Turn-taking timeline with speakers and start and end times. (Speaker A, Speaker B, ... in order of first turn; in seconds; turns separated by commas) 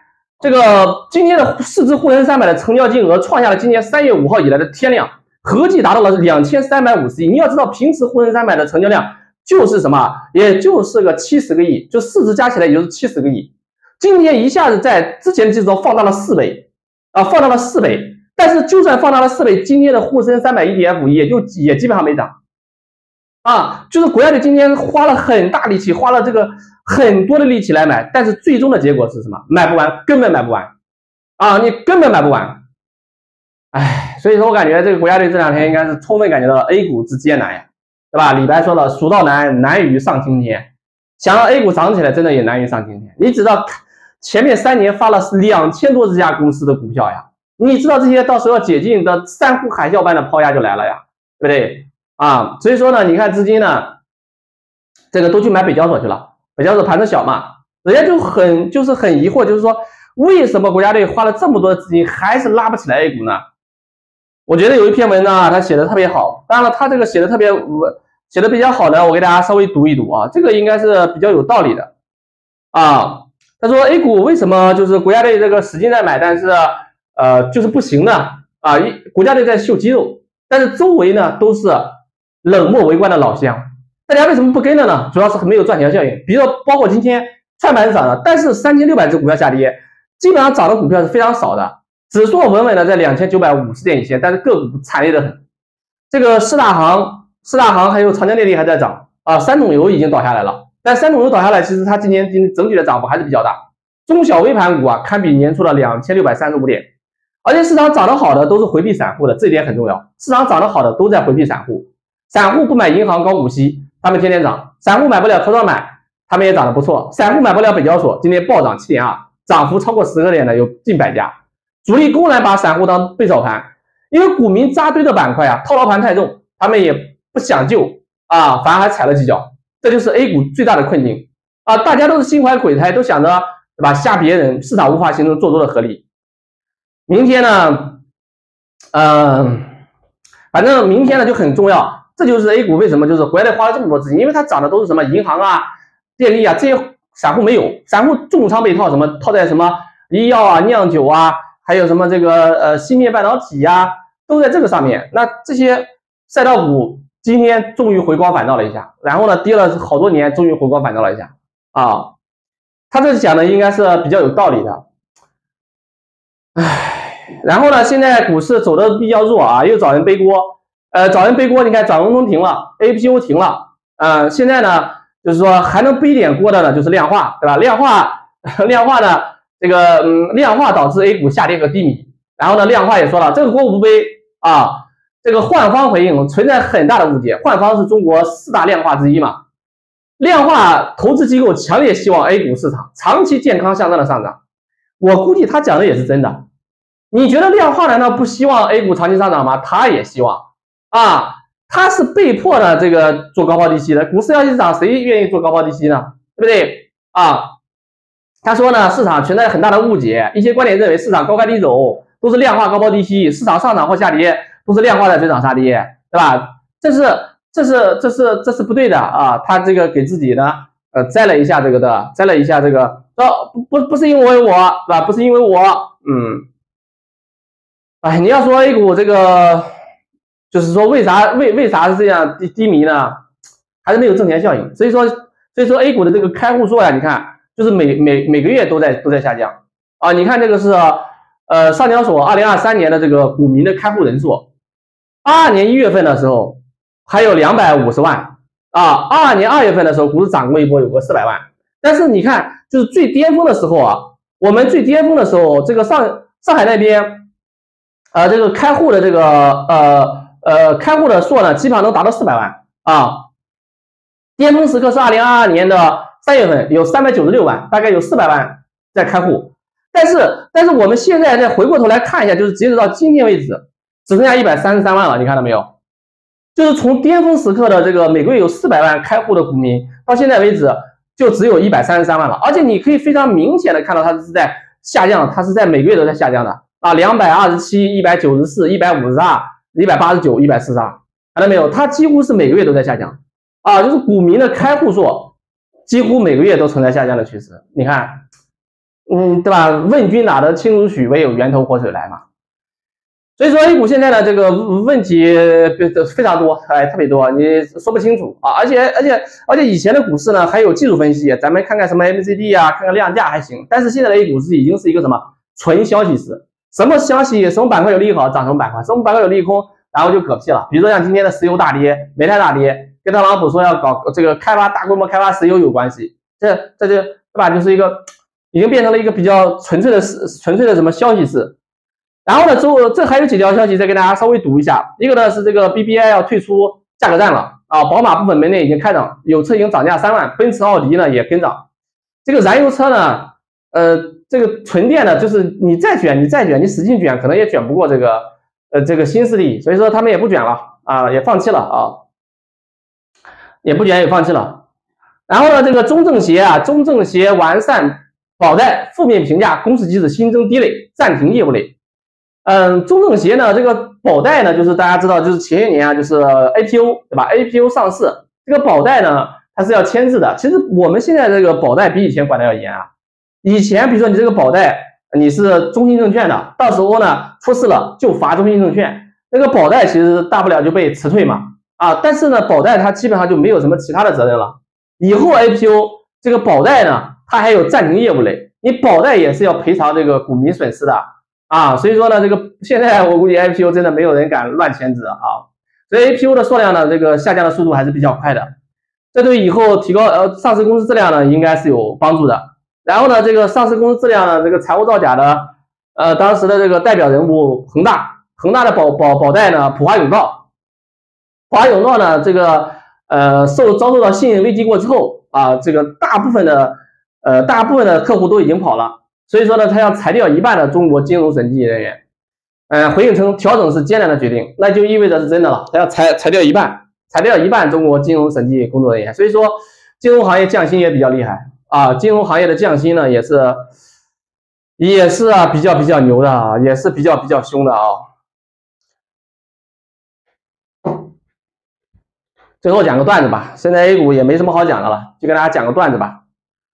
Speaker A: 0.4-22.3, Speaker A: 23.4-30.7, Speaker A: 31.4-32.6, Speaker A: 33.7-54.0, Speaker A: 55.1-63.4, Speaker A: 64.5-71.9, Speaker A: 72.7-95.4, Speaker A: 96.1-106.9, Speaker A: 107.4-121.3, Speaker A: 121.8-136.0, Speaker A: 137.1-138.0, Speaker A: 138.9-139.7, Speaker A: 140.5-145.7, Speaker A: 146.2-162.1, Speaker A: 162.9-164.8, Speaker A: 166.6-189.4, Speaker A: 190.2-194.4, Speaker A: 195.0-196.4, Speaker A: 197.1-207.5, Speaker A: 208.4-226.4, Speaker A: 228.0-229.7, Speaker A: 230.5-233.2, Speaker A: 233.8-244.5, Speaker A: 245.2-257.2, Speaker A: 258.1-263.2, Speaker A: 264.4-275.7, Speaker A: 276.5-295.3, Speaker A: 295.9-298.1, Speaker A: 299.1-302.2, Speaker A: 303.4-331.6, Speaker A: 332.2-341.6, Speaker A: 342.2-352.0, Speaker A: 353.6-354.6, Speaker A: 355.3-361.8, Speaker A: 362.4-372.9, Speaker A: 373.4-398.5, Speaker A: 399.1-410.4, Speaker A: 411.5-422.0, Speaker A: 422.7-433.6, Speaker A: 434.8-438.1, Speaker A: 442.6-446.2